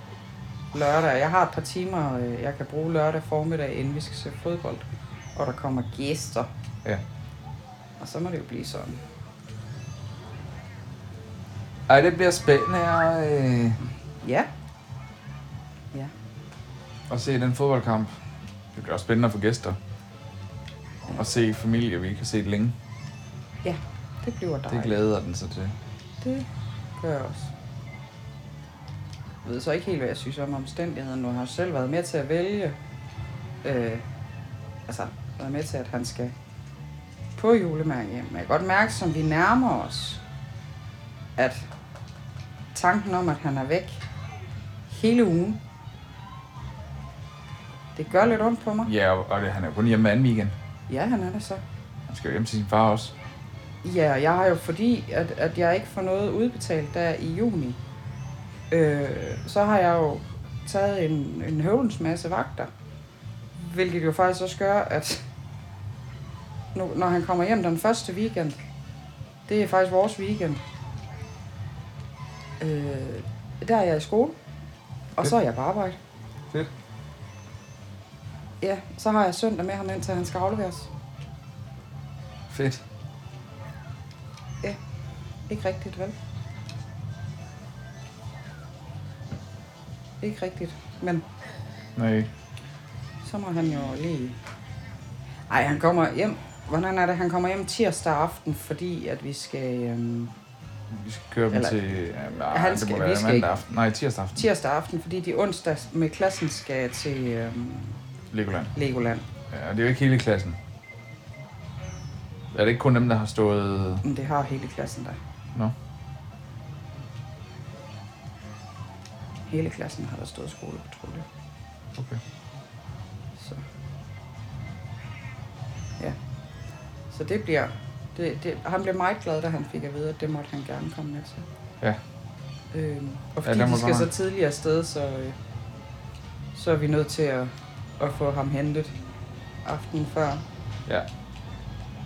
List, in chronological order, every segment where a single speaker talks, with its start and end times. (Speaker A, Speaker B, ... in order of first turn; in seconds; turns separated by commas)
Speaker A: 0.7-4.8, Speaker A: 5.4-6.5, Speaker A: 8.0-9.0, Speaker B: 11.9-13.8, Speaker A: 14.2-14.5, Speaker B: 17.1-18.1, Speaker B: 18.7-19.8, Speaker B: 21.1-22.8, Speaker A: 23.6-25.0, Speaker B: 24.7-25.8, Speaker A: 26.2-26.5, Speaker A: 27.0-27.5, Speaker A: 29.4-32.8, Speaker A: 33.6-34.0, Speaker A: 34.9-36.3, Speaker A: 37.4-40.2, Speaker A: 41.4-41.6, Speaker A: 42.7-44.0, Speaker A: 44.9-45.6, Speaker A: 48.0-48.9, Speaker B: 48.8-50.5, Speaker A: 50.9-51.6, Speaker B: 52.1-53.1, Speaker A: 53.8-57.8, Speaker A: 58.7-62.7, Speaker A: 63.6-65.2, Speaker A: 66.7-68.6, Speaker A: 69.5-70.6, Speaker A: 72.6-74.4, Speaker A: 75.2-76.0, Speaker A: 78.6-80.9, Speaker B: 82.5-82.8, Speaker A: 85.5-86.2, Speaker A: 90.2-91.2, Speaker B: 92.0-92.3, Speaker A: 93.2-94.4, Speaker A: 95.5-100.3, Speaker B: 100.9-104.5, Speaker A: 101.5-103.5, Speaker A: 104.4-108.0, Speaker B: 108.3-108.7, Speaker A: 108.7-109.2, Speaker B: 109.5-110.6, Speaker B: 112.5-114.0, Speaker A: 114.0-115.2, Speaker A: 119.5-121.2, Speaker B: 122.0-122.2, Speaker A: 127.1-131.5, Speaker A: 132.7-135.4, Speaker B: 133.4-134.1, Speaker A: 136.5-138.9, Speaker A: 139.6-140.4